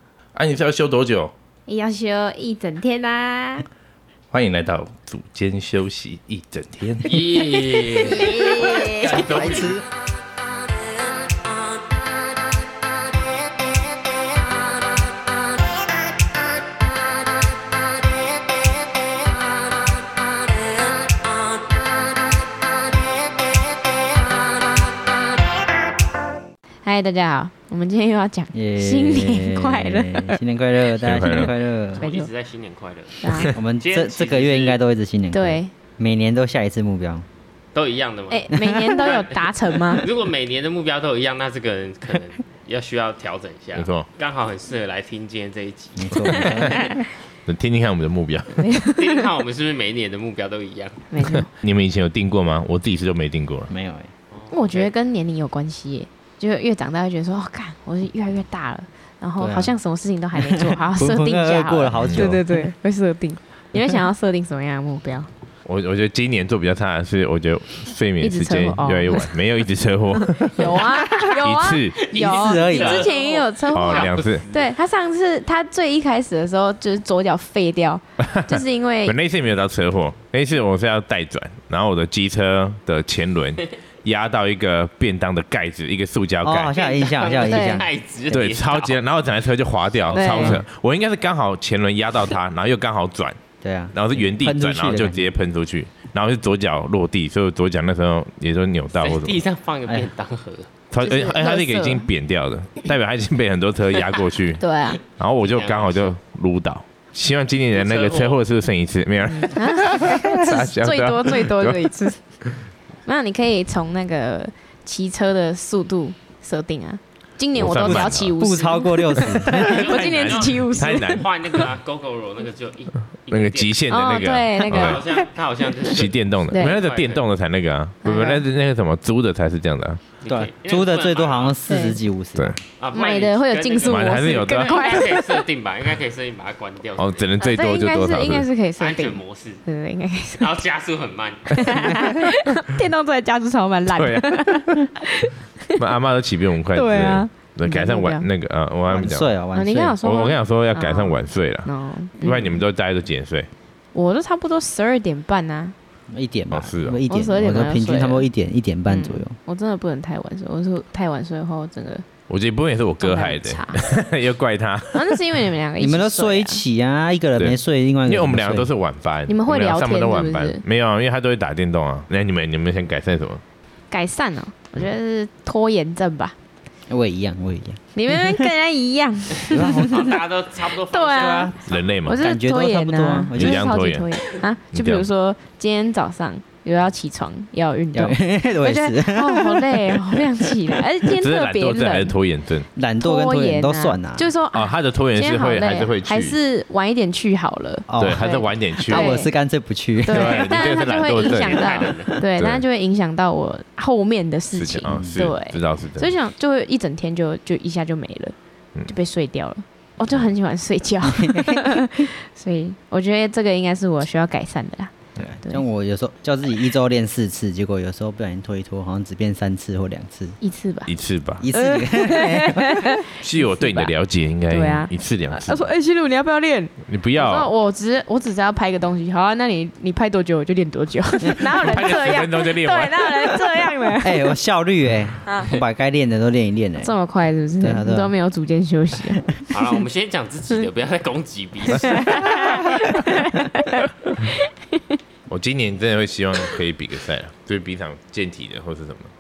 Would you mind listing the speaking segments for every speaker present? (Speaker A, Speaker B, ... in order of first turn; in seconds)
Speaker A: 0.3-1.3, 4.3-7.2, 9.1-9.6, 31.0-31.5, 43.7-44.1, 47.5-48.7, 51.6-53.7, 62.0-62.3, 65.7-72.1, 73.7-74.4, 78.2-86.8, 88.3-93.4, 93.9-99.4, 100.9-104.6, 105.2-111.9, 117.5-118.3, 119.7-121.3, 123.3-125.1, 125.9-130.0, 133.8-134.9, 137.0-138.5, 143.9-144.7, 145.8-149.3, 150.0-153.5, 156.5-157.0, 162.3-165.2, 167.4-173.4, 181.7-182.2, 183.3-184.1, 184.7-185.1, 191.2-192.7, 194.5-196.4, 198.0-199.1, 200.1-201.7, 202.4-202.6, 204.5-206.1, 220.9-221.4, 223.2-225.7, 226.8-227.5, 231.5-233.5, 245.3-249.1
Speaker B: 1.7-3.7, 8.1-9.1, 26.8-30.4, 31.3-32.3, 33.2-33.5, 35.3-35.7, 38.3-40.1, 48.6-49.2, 51.1-51.5, 54.5-65.3, 68.2-69.3, 70.2-79.2, 87.5-87.8, 90.1-90.6, 101.0-102.1, 104.6-105.0, 109.4-112.2, 113.0-121.2, 123.9-125.0, 128.0-128.4, 131.7-132.0, 132.9-135.4, 137.4-140.5, 141.5-145.8, 146.7-148.3, 149.5-152.6, 153.9-155.8, 157.1-158.3, 158.9-162.1, 163.0-163.9, 164.9-166.6, 169.3-170.6, 173.9-176.3, 177.9-180.1, 180.9-181.5, 182.1-192.2, 193.0-199.3, 200.1-208.3, 208.9-215.6, 220.4-220.9, 221.5-223.9, 224.5-234.3, 235.2-235.5, 236.8-239.4, 241.8-244.8
Speaker C: 7.0-9.8, 31.9-34.8, 37.7-47.0, 48.9-51.1, 54.3-54.9, 72.1-74.7, 86.7-89.0, 99.0-100.7, 105.4-106.1, 107.7-108.4, 119.6-123.9, 124.7-127.3, 130.2-131.6, 132.8-137.3, 138.8-139.6, 140.4-141.7, 179.5-182.1, 201.2-202.2, 239.5-242.1
Speaker D: 9.3-9.8, 28.5-32.0, 33.4-37.3, 46.0-46.8, 53.7-54.1, 59.4-59.8, 60.4-62.5, 72.2-73.1, 86.4-87.9, 90.2-90.7, 93.6-95.3, 117.7-119.7, 130.3-132.6, 148.9-150.0, 156.1-159.4, 165.8-168.7, 176.9-178.4, 179.5-180.2, 182.2-183.6, 187.9-190.2, 192.8-194.3, 197.9-198.2, 198.8-200.5, 204.9-205.3, 211.0-211.6, 215.2-220.4, 221.4-223.0, 234.0-236.9, 237.6-238.1